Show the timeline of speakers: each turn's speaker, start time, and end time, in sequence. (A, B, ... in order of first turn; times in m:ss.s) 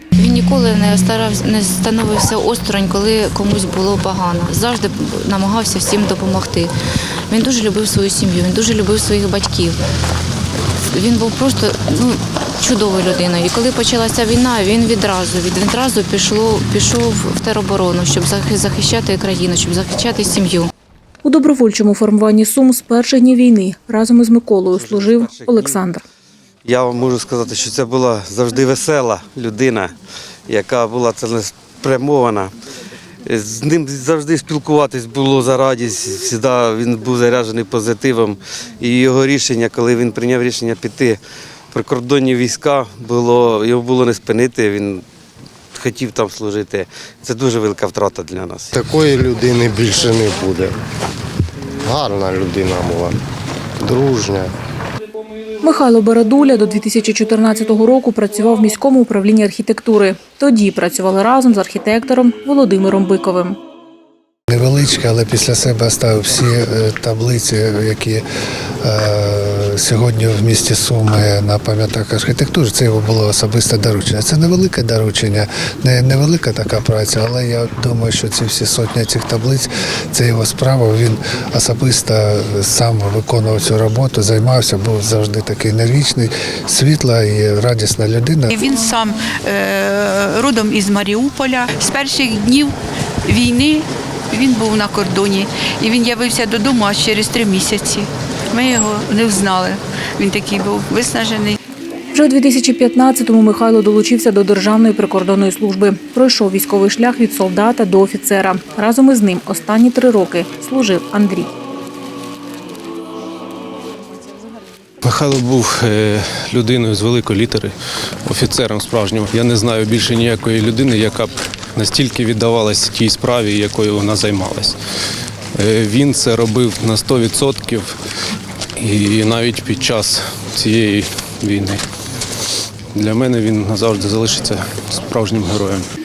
0:00.2-0:06.7 A
0:07.3-0:09.8 A
0:10.9-0:20.7 A
0:21.2-0:26.0 B
0:24.8-0:25.8 C
0:26.6-0:29.9 C
0:30.5-0:32.5 C
0:33.2-0:41.2 C
0:41.7-0:45.0 C
0:45.7-0:48.8 C
0:48.7-0:50.8 D
0:51.8-0:53.2 D
0:53.8-0:54.5 D
0:55.6-1:03.6 B
1:04.5-1:08.2 E
1:08.8-1:28.6 E
1:28.5-1:32.7 F
1:33.3-1:41.6 F
1:42.1-1:51.5 B
1:55.0-1:57.7 G
1:58.3-2:04.8 G
2:05.6-2:08.0 G
2:08.8-2:11.8 G
2:12.9-2:15.9 G